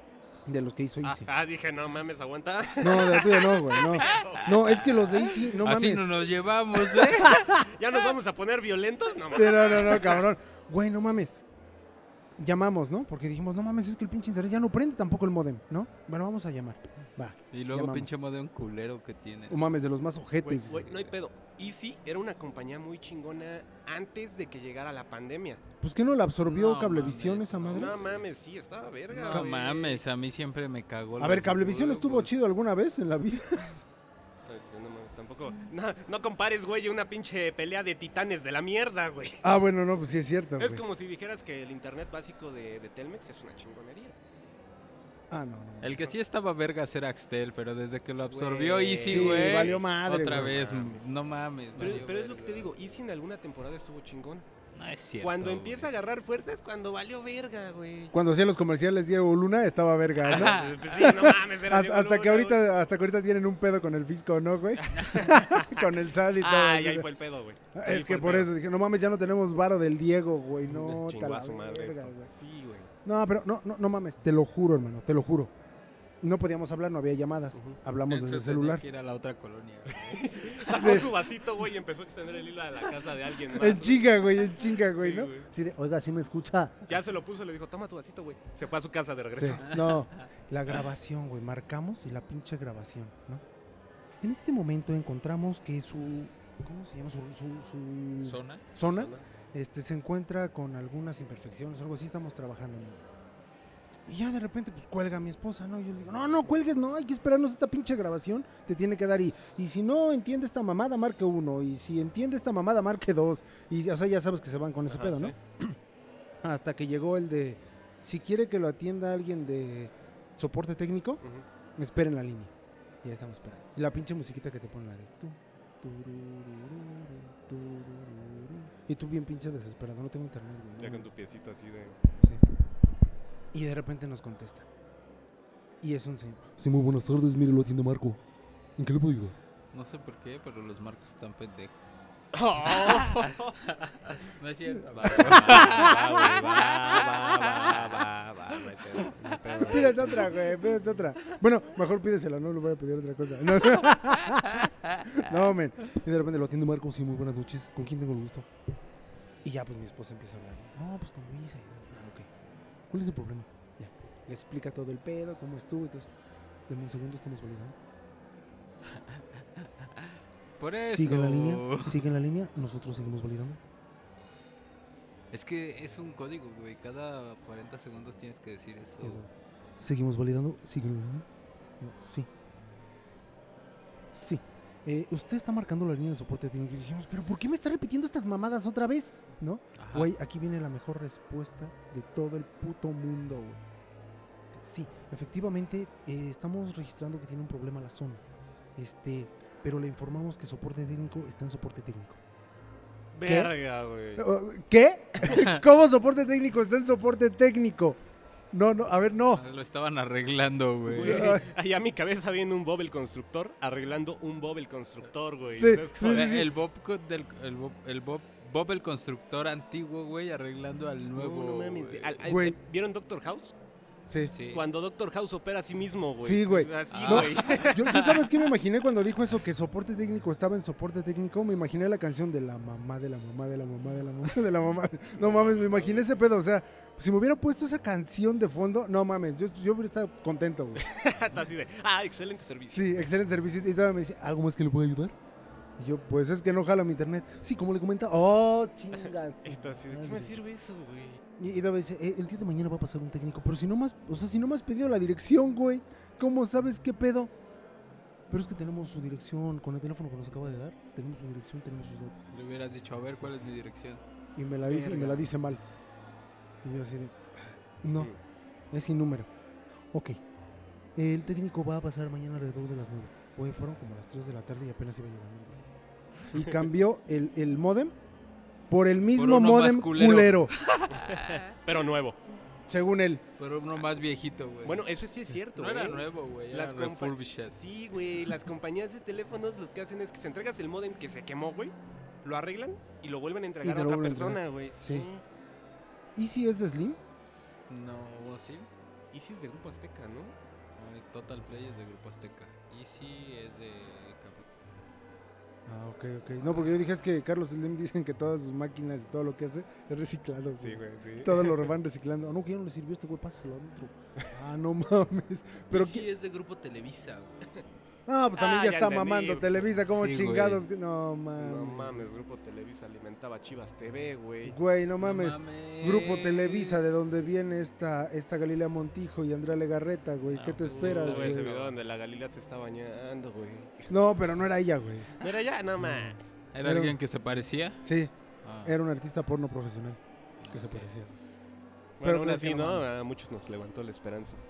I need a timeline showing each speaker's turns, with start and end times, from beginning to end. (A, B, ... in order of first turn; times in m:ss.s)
0:00.4-0:01.3 A
0:01.0-0:05.1 B
0:02.8-0:06.1 A
0:05.6-0:07.5 C
0:06.8-0:07.7 A
0:07.5-0:10.2 B
0:09.3-0:11.3 A
0:12.4-0:18.1 A
0:17.5-0:19.6 C
0:19.5-0:20.9 A
0:20.4-0:25.6 B
0:20.8-0:21.1 C
0:25.8-0:28.0 A
0:26.4-0:28.2 C
0:27.7-0:30.0 B
0:29.1-0:32.3 C
0:29.2-0:29.5 A
0:31.2-0:33.8 A
0:34.4-0:39.4 B
0:39.4-0:40.8 A
0:40.6-0:44.1 B
0:45.3-0:46.1 A
0:45.8-0:52.7 C
0:48.3-0:51.1 B
0:49.0-0:50.6 A
0:51.7-0:54.4 B
0:54.8-0:55.9 C
0:55.2-0:58.2 B
0:58.1-1:07.1 A
1:00.2-1:02.6 B
1:00.3-1:01.3 C
1:04.8-1:08.5 B
1:07.7-1:12.3 A
1:10.6-1:12.9 B
1:13.0-1:15.5 A
1:16.2-1:18.8 A
1:18.1-1:20.6 C
1:19.9-1:24.1 B
1:20.7-1:21.1 A
1:23.5-1:26.9 A
1:24.8-1:25.5 B
1:26.9-1:29.8 B
1:29.3-1:33.4 A
1:34.2-1:43.0 A
1:38.2-1:38.6 C
1:38.8-1:39.2 B
1:44.1-1:55.8 A
1:54.9-1:55.4 B
1:56.4-2:01.2 A
2:01.8-2:02.5 A
2:03.0-2:11.1 A
2:10.8-2:12.0 B
2:13.5-2:14.7 A
2:15.8-2:18.2 A
2:18.8-2:19.4 A
2:19.7-2:22.0 C
2:22.3-2:23.5 B
2:22.6-2:28.0 C
2:25.0-2:30.3 B
2:25.0-2:25.8 A
2:28.8-2:29.9 C
2:29.6-2:38.5 A
2:39.4-2:42.3 A
2:42.9-2:46.1 A
2:46.7-2:47.8 A
2:48.9-2:52.0 C
2:50.6-2:53.6 A
2:55.3-2:59.3 C
2:59.0-2:59.3 A
2:59.8-3:01.2 A
3:01.8-3:02.3 A
3:04.1-3:13.6 A
3:09.8-3:10.1 C
3:14.5-3:18.2 A
3:18.8-3:22.2 A
3:23.1-3:24.2 B
3:23.2-3:23.5 A
3:24.2-3:28.0 A
3:28.5-3:29.4 A
3:29.3-3:31.3 C
3:30.9-3:36.4 B
3:31.0-3:31.5 A
3:35.6-3:36.5 A
3:36.0-3:42.2 C
3:41.2-3:43.5 B
3:42.2-3:42.6 A
3:44.1-3:44.3 A
3:44.3-3:44.6 C
3:44.5-3:48.0 B
3:46.2-4:00.9 A
3:46.9-3:48.2 C
3:55.2-3:56.1 B
4:00.8-4:03.1 B
4:02.7-4:05.1 A
4:05.8-4:10.4 A
4:09.0-4:11.2 B
4:11.4-4:17.3 A
4:18.3-4:22.2 A
4:22.3-4:24.0 C
4:24.4-4:25.6 A
4:24.7-4:25.2 B
4:26.6-4:28.1 A
4:28.7-4:29.3 A
4:29.9-4:30.2 A
4:31.0-4:35.6 A
4:36.3-4:37.9 A
4:38.7-4:40.5 A
4:39.2-4:41.4 C
4:40.9-4:42.2 B
4:42.7-4:43.2 A
4:43.4-4:44.8 C
4:44.6-4:55.2 B
4:45.5-4:47.6 C
4:53.6-4:55.1 A
4:56.1-4:57.0 A
4:57.7-4:58.7 C
4:59.1-5:00.3 B
5:00.8-5:04.4 C
5:05.7-5:16.0 A
5:10.6-5:11.7 B
5:15.7-5:17.4 C
5:18.1-5:22.0 A
5:18.4-5:19.7 B
5:19.8-5:20.6 C
5:21.4-5:24.6 B
5:24.4-5:31.6 A
5:25.0-5:27.0 C
5:30.3-5:31.7 C
5:30.6-5:33.9 B
5:33.9-5:35.1 A
5:35.2-5:36.2 B
5:35.8-5:37.0 A
5:36.5-5:37.8 C
5:37.8-5:38.1 A
5:38.4-5:38.8 C
5:38.6-5:40.0 A
5:40.4-5:40.9 C
5:40.5-5:41.2 A
5:42.0-5:44.4 B
5:42.0-5:42.8 A